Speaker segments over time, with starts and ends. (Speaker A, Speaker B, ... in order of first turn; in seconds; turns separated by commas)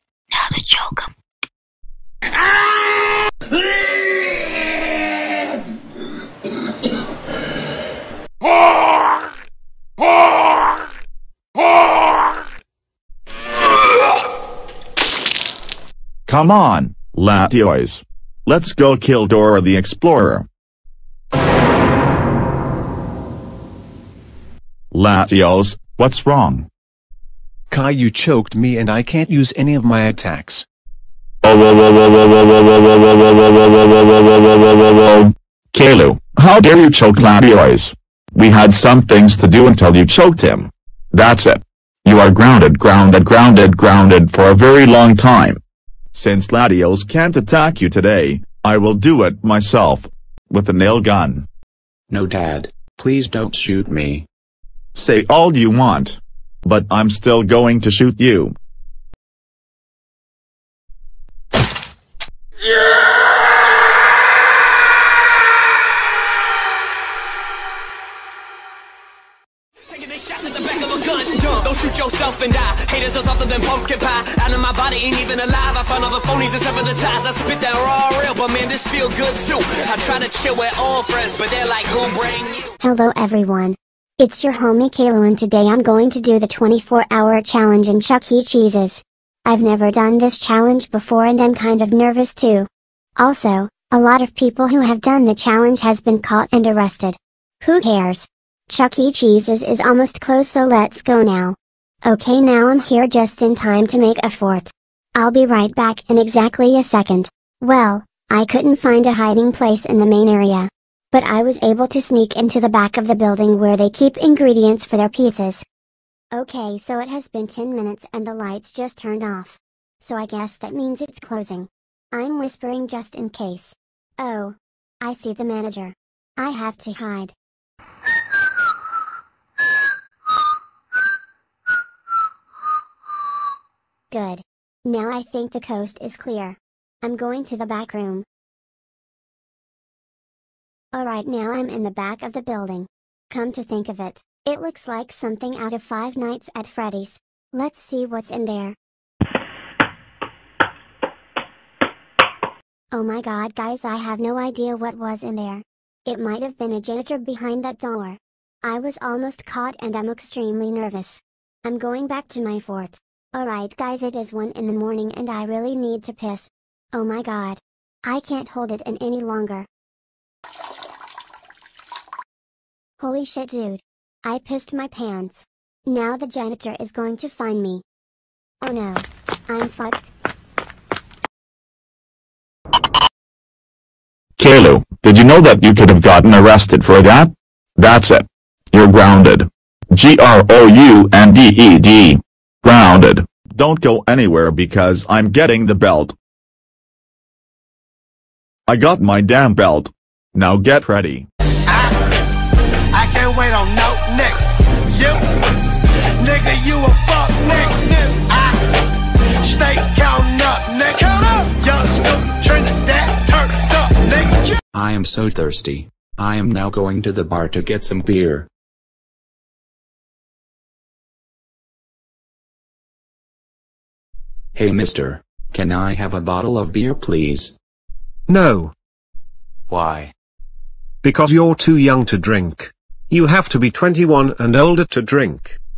Speaker A: 16.3-20.4, Speaker A: 24.9-26.7, Speaker B: 27.7-30.6, Speaker A: 34.9-45.6, Speaker A: 46.1-51.5, Speaker C: 52.1-54.2, Speaker A: 54.9-58.5, Speaker D: 69.9-82.7, Speaker E: 82.8-115.6, Speaker E: 116.3-127.3, Speaker E: 134.1-138.2, Speaker E: 140.9-148.8, Speaker E: 152.9-169.7, Speaker E: 173.0-177.8, Speaker E: 178.6-180.1, Speaker A: 184.4-196.1, Speaker A: 198.7-201.3, Speaker F: 202.9-204.4, Speaker F: 204.9-205.2, Speaker F: 206.2-208.6, Speaker F: 209.4-214.4, Speaker C: 214.7-218.5, Speaker C: 224.6-227.5, Speaker G: 228.3-228.7, Speaker C: 229.7-230.1, Speaker G: 231.0-235.6